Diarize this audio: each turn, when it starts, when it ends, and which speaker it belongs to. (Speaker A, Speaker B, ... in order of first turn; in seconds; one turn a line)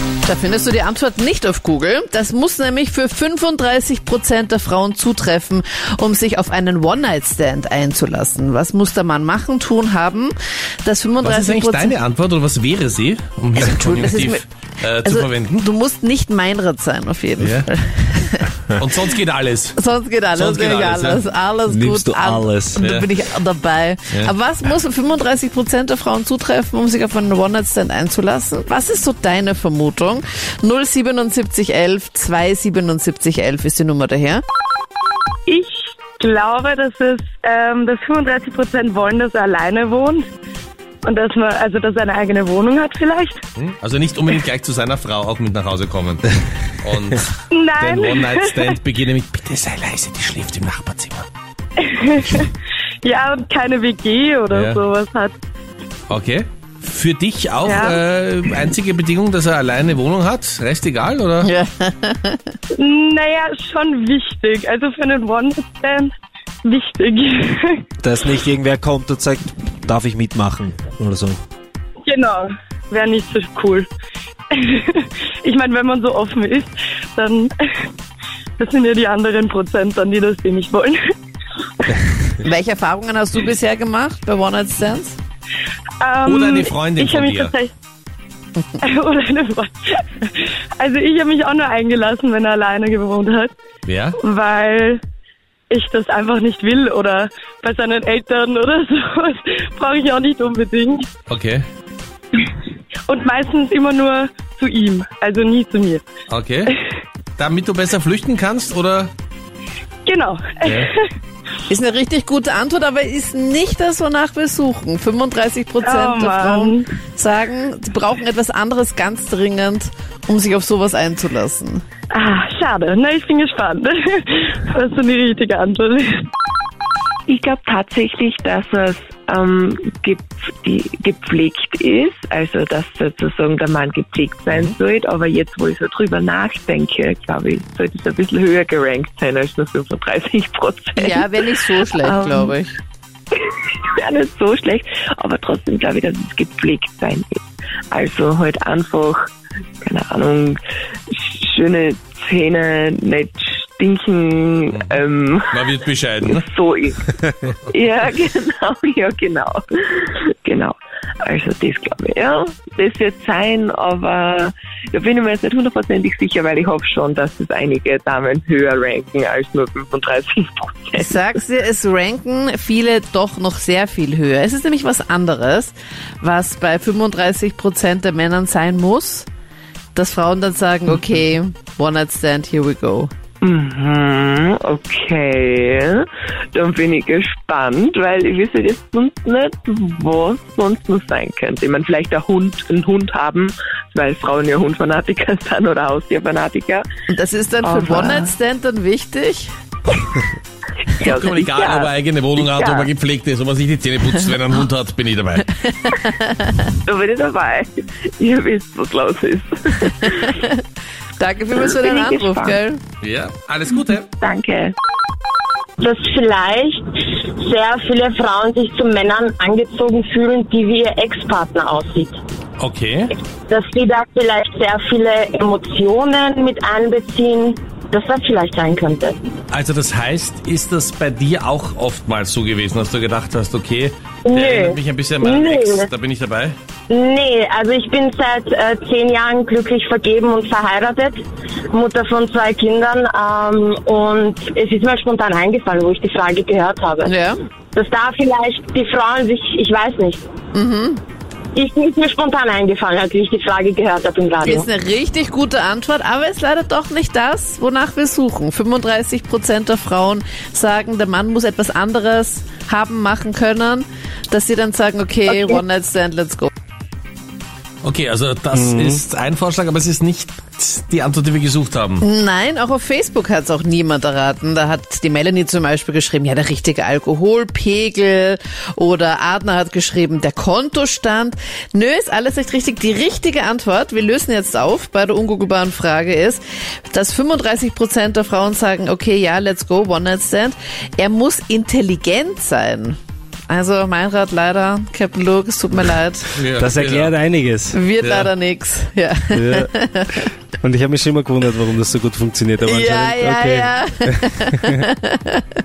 Speaker A: 0.2-10.3
Speaker A: 10.8-11.9
Speaker B: 11.2-15.6
Speaker A: 13.6-14.4
Speaker A: 15.0-18.5
Speaker B: 17.4-17.7
Speaker B: 18.8-19.8
Speaker A: 19.8-34.4
Speaker B: 20.3-21.2
Speaker C: 21.7-22.8
Speaker B: 22.8-23.1
Speaker D: 35.5-40.3
Speaker D: 41.0-43.4
Speaker B: 43.6-51.2
Speaker D: 47.5-48.8
Speaker D: 51.8-52.5
Speaker D: 53.0-55.3
Speaker B: 54.5-54.8
Speaker B: 56.1-61.5
Speaker D: 57.6-58.0
Speaker A: 61.4-62.5
Speaker D: 62.8-66.1
Speaker D: 66.6-67.8
Speaker C: 68.0-71.4
Speaker D: 72.0-73.9
Speaker D: 74.5-77.9
Speaker D: 78.6-81.0
Speaker A: 82.4-85.2
Speaker D: 86.0-87.7
Speaker B: 86.2-87.5
Speaker D: 88.8-90.0
Speaker D: 90.8-93.5
Speaker B: 93.9-94.2
Speaker D: 94.2-95.0
Speaker D: 95.7-101.1
Speaker B: 101.3-101.6
Speaker D: 103.1-106.0
Speaker B: 106.3-106.7
Speaker B: 107.4-109.1
Speaker D: 110.1-111.1
Speaker A: 111.7-121.8
Speaker D: 115.8-116.9
Speaker D: 122.1-126.3
Speaker E: 127.3-141.2
Speaker B: 134.5-134.8
Speaker A: 141.0-142.7
Speaker E: 142.0-142.5
Speaker E: 143.9-147.4
Speaker E: 147.9-149.2
Speaker E: 149.8-150.6
Speaker E: 151.1-155.4
Speaker B: 154.7-156.5
Speaker E: 156.3-156.9
Speaker E: 157.7-171.1
Speaker A: 170.9-179.3
Speaker A: 179.9-183.1
Speaker E: 183.4-196.8
Speaker A: 197.1-199.5
Speaker E: 197.6-198.3
Speaker B: 201.0-205.5
Speaker E: 201.1-201.9
Speaker A: 205.7-206.7
Speaker E: 206.8-209.9
Speaker A: 209.8-210.6
Speaker A: 211.2-212.8
Speaker E: 211.8-212.6
Speaker B: 213.0-214.1
Speaker E: 214.2-214.7
Speaker F: 215.8-222.2
Speaker B: 222.6-223.1
Speaker F: 223.5-229.2
Speaker B: 229.5-236.6
Speaker F: 234.2-235.9
Speaker F: 236.9-241.2
Speaker F: 241.7-247.1
Speaker A: 247.0-247.3
Speaker F: 247.8-250.3
Speaker A: 250.5-251.0
Speaker F: 251.5-254.7
Speaker A: 254.4-266.5
Speaker B: 267.8-272.0
Speaker C: 268.5-269.0
Speaker A: 272.0-293.0
Speaker A: 293.5-296.4
Speaker B: 296.4-297.1
Speaker C: 296.6-297.8
Speaker A: 297.7-300.3
Speaker B: 298.0-298.3
Speaker C: 299.3-299.7
Speaker C: 300.6-304.8
Speaker A: 302.6-305.4